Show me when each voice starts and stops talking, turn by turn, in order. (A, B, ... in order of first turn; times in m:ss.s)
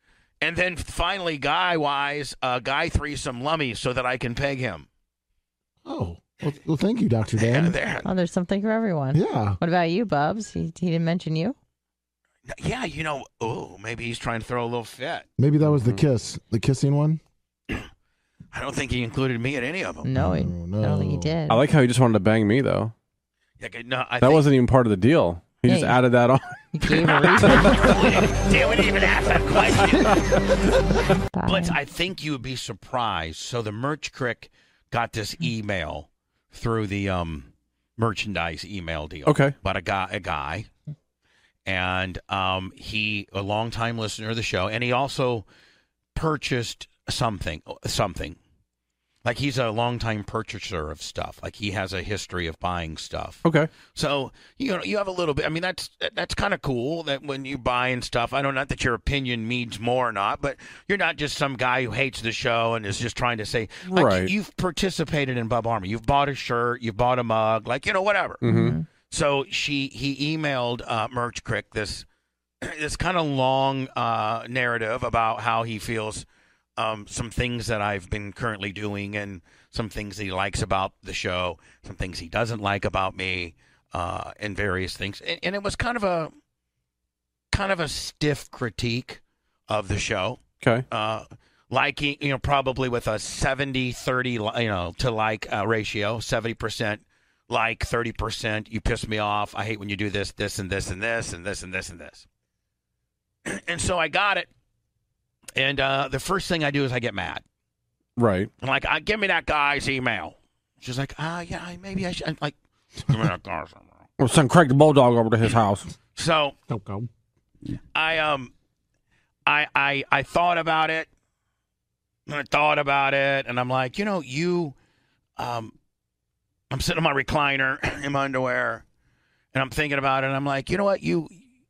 0:00.4-0:04.9 A
0:05.8-0:07.8 B
0:07.4-0:08.1 A
0:08.0-0:11.6 C
0:09.1-0:09.6 B
0:12.5-0:15.3 A
0:15.4-0:17.2 B
0:15.7-0:16.0 D
0:18.5-0:20.1 A
0:20.0-0:21.6 C
0:20.1-0:21.4 B
0:21.5-0:22.9 D
0:23.6-0:24.5 A
0:24.2-0:26.5 D
0:25.7-0:26.1 C
0:26.7-0:28.0 C
0:26.9-0:30.2 A
0:27.2-0:27.9 D
0:31.3-0:31.8 C
0:31.4-0:40.7 A
0:39.3-0:39.6 D
0:41.7-0:45.5 A
0:46.2-0:48.4 A
0:49.2-1:08.4 A
1:03.9-1:04.3 D
1:08.4-1:08.8 D
1:08.4-1:08.9 C
1:09.1-1:12.0 A
1:12.6-1:26.3 A
1:27.5-1:42.3 A
1:30.6-1:30.9 D
1:43.4-1:44.5 A
1:45.6-1:47.4 A
1:48.2-1:48.5 D
1:48.6-1:53.9 A
1:54.2-1:55.9 D
1:56.2-1:56.6 A
1:56.7-1:57.1 B
1:58.0-1:58.5 A
1:59.5-2:01.1 A
2:02.3-2:04.8 A
2:05.4-2:05.7 A
2:06.7-2:08.8 A
2:09.5-2:11.4 A